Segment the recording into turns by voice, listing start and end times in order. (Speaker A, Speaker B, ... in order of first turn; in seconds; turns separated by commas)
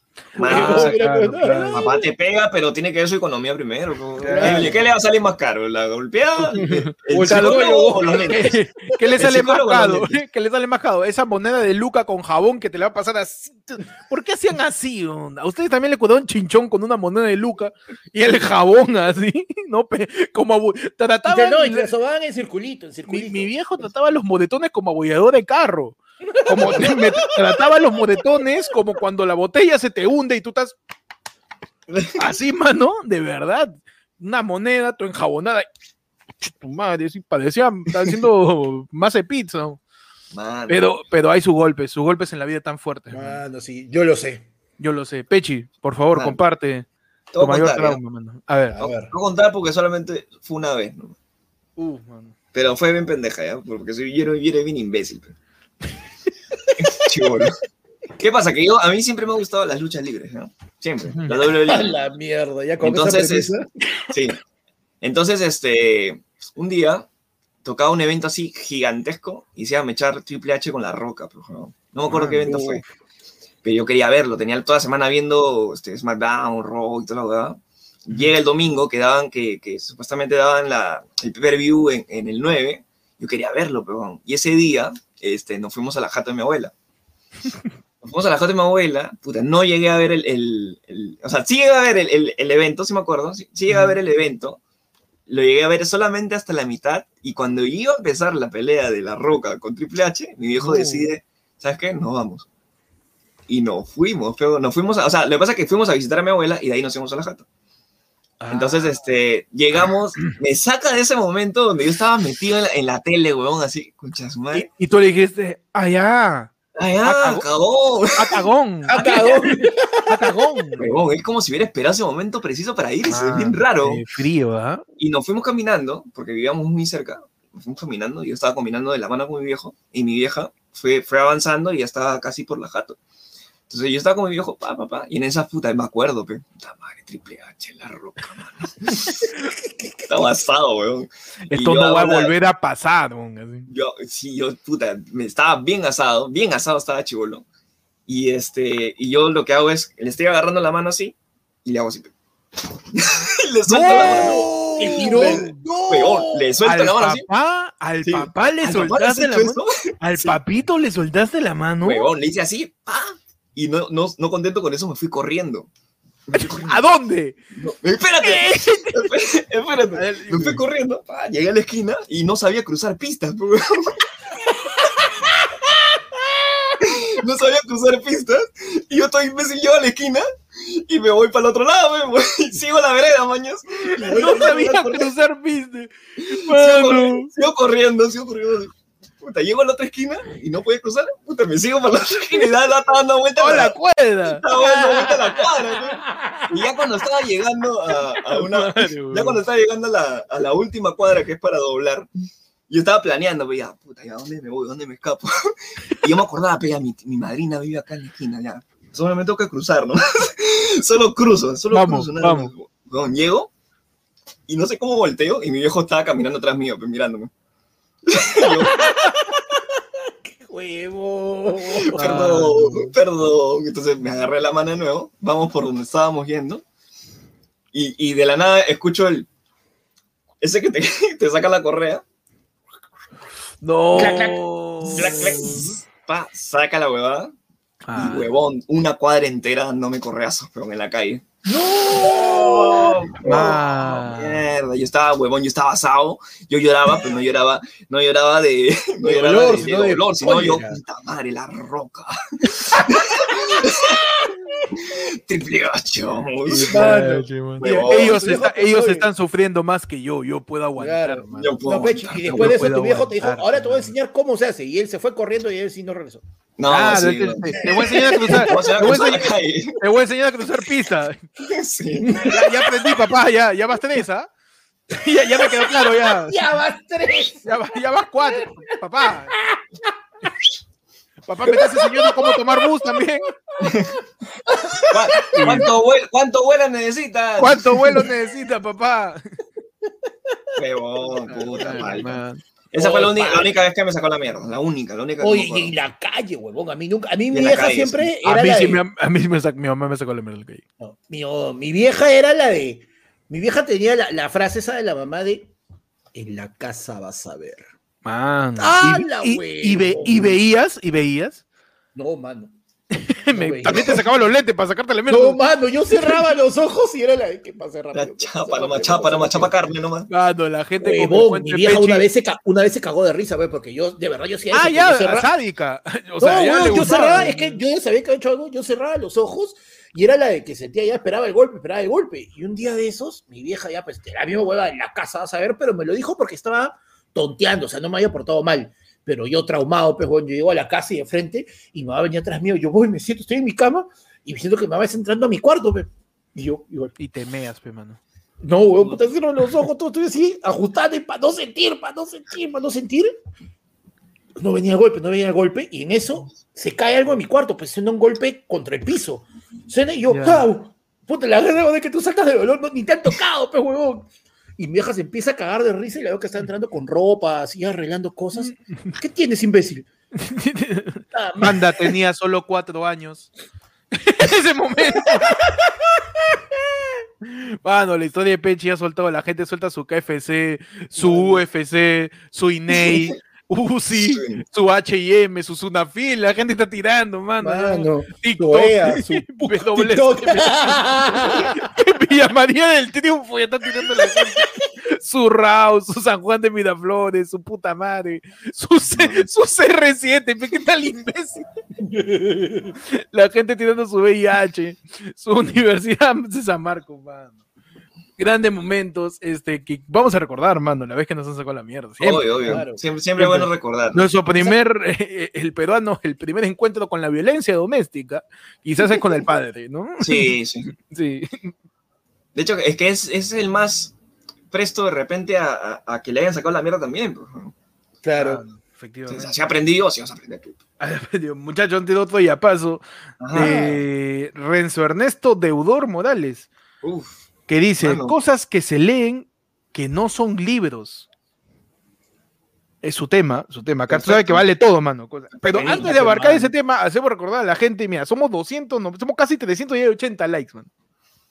Speaker A: 0.3-8.6, Speaker B: 0.4-2.1, Speaker C: 0.5-1.9, Speaker C: 4.2-4.8, Speaker B: 4.2-4.8, Speaker C: 6.5-21.9, Speaker B: 7.1-8.5, Speaker A: 9.2-10.2, Speaker B: 21.3-23.5, Speaker C: 23.1-30.8, Speaker B: 26.4-27.2, Speaker A: 31.9-32.2, Speaker C: 32.2-35.7, Speaker C: 36.4-39.8, Speaker A: 40.3-40.8, Speaker C: 40.7-43.4, Speaker B: 43.1-44.5, Speaker C: 44.8-46.9, Speaker A: 47.3-48.0, Speaker C: 47.4-48.8, Speaker B: 48.8-49.1, Speaker A: 48.8-51.1, Speaker C: 51.8-52.3, Speaker A: 52.5-55.3, Speaker A: 56.8-57.6, Speaker A: 58.2-62.0, Speaker C: 61.1-61.4, Speaker B: 61.6-63.7, Speaker A: 62.8-63.5, Speaker A: 64.1-64.4, Speaker A: 65.0-67.1, Speaker A: 67.6-72.8, Speaker C: 72.1-72.5, Speaker B: 72.4-72.8, Speaker A: 73.6-86.7, Speaker A: 88.0-94.6, Speaker C: 93.7-94.0, Speaker A: 95.3-102.5, Speaker C: 100.6-101.1, Speaker A: 103.5-107.5, Speaker C: 108.4-109.0, Speaker A: 108.5-114.7, Speaker C: 114.5-116.5, Speaker A: 116.8-119.5, Speaker C: 117.0-117.5, Speaker C: 118.2-119.5, Speaker B: 118.9-120.2, Speaker C: 120.1-120.9, Speaker A: 120.8-124.0, Speaker C: 123.1-124.8, Speaker A: 125.0-133.0, Speaker A: 133.7-139.3, Speaker B: 139.3-140.2, Speaker A: 140.1-142.3, Speaker C: 141.5-143.7, Speaker A: 143.7-147.4, Speaker A: 148.1-152.1, Speaker A: 152.9-157.3, Speaker C: 153.7-155.6, Speaker B: 153.9-156.6, Speaker C: 156.6-162.1, Speaker A: 158.0-160.4, Speaker A: 161.8-165.7, Speaker A: 166.3-166.8, Speaker C: 166.3-167.4, Speaker A: 167.6-174.1, Speaker C: 168.2-169.1, Speaker C: 169.9-170.6, Speaker A: 176.8-185.1, Speaker C: 183.9-187.3, Speaker A: 186.2-202.1, Speaker C: 193.4-194.4, Speaker B: 194.5-196.6, Speaker C: 198.2-199.4, Speaker A: 202.7-213.5, Speaker C: 211.7-212.5, Speaker A: 214.5-217.3, Speaker A: 218.1-218.9, Speaker B: 218.4-219.6, Speaker B: 220.3-222.4, Speaker A: 221.7-226.6, Speaker C: 221.9-222.9, Speaker A: 227.7-229.3, Speaker A: 230.4-232.0, Speaker C: 233.6-235.7, Speaker B: 233.9-235.6, Speaker A: 234.9-237.3, Speaker C: 237.8-238.3, Speaker A: 237.9-241.2, Speaker B: 241.4-243.6, Speaker A: 241.9-254.0, Speaker C: 243.2-244.4, Speaker C: 249.1-250.7, Speaker B: 249.1-250.8, Speaker B: 253.3-254.4, Speaker A: 254.7-257.0, Speaker C: 256.5-261.6, Speaker B: 256.6-259.1, Speaker A: 257.6-258.2, Speaker B: 260.8-266.2, Speaker A: 261.4-262.6, Speaker C: 262.2-263.9, Speaker A: 266.6-269.8, Speaker C: 266.7-271.2, Speaker B: 267.6-268.9, Speaker A: 271.4-272.4, Speaker B: 272.0-272.4, Speaker C: 272.1-274.3, Speaker C: 274.9-276.4, Speaker B: 275.3-277.5, Speaker C: 277.4-279.4, Speaker B: 279.3-279.9, Speaker C: 281.3-283.4, Speaker B: 281.5-283.0, Speaker A: 283.6-284.0, Speaker B: 284.4-285.7, Speaker A: 284.9-288.1, Speaker C: 285.3-285.7, Speaker C: 287.4-289.4, Speaker A: 290.6-292.2, Speaker B: 291.2-292.0, Speaker C: 291.6-292.4, Speaker A: 292.7-295.7, Speaker B: 292.7-293.6, Speaker B: 295.2-298.8, Speaker A: 297.3-298.1, Speaker C: 298.2-300.6, Speaker B: 300.8-305.5, Speaker B: 306.1-307.6, Speaker C: 308.1-311.4, Speaker B: 308.6-310.4, Speaker B: 311.9-312.5, Speaker C: 312.9-315.4, Speaker B: 313.3-314.0, Speaker B: 315.1-319.6, Speaker A: 317.9-320.1, Speaker C: 320.1-322.1, Speaker B: 320.8-325.3, Speaker C: 324.5-327.6, Speaker B: 326.2-346.9, Speaker C: 347.0-348.0, Speaker B: 348.4-353.1, Speaker B: 354.4-369.9, Speaker C: 360.1-360.4, Speaker C: 368.4-368.9, Speaker C: 370.2-373.3, Speaker B: 371.1-371.9, Speaker C: 373.9-376.4, Speaker C: 377.2-401.4, Speaker B: 381.0-381.4, Speaker A: 383.9-384.4, Speaker B: 387.4-391.7, Speaker B: 393.8-394.4, Speaker A: 398.9-399.3, Speaker B: 401.9-402.7, Speaker C: 402.6-407.4, Speaker C: 408.2-412.6, Speaker A: 412.0-414.1, Speaker B: 412.4-412.8, Speaker C: 413.2-421.5, Speaker A: 420.0-420.7, Speaker A: 422.4-423.9, Speaker A: 424.5-427.5, Speaker B: 428.0-428.4, Speaker C: 428.2-429.4, Speaker A: 429.1-430.6, Speaker C: 430.8-436.5, Speaker A: 433.2-433.7, Speaker B: 433.3-433.9, Speaker A: 436.8-437.3, Speaker C: 437.5-441.1, Speaker A: 437.8-438.2, Speaker C: 442.8-450.7, Speaker A: 443.9-444.4, Speaker A: 445.4-446.4, Speaker B: 445.6-446.5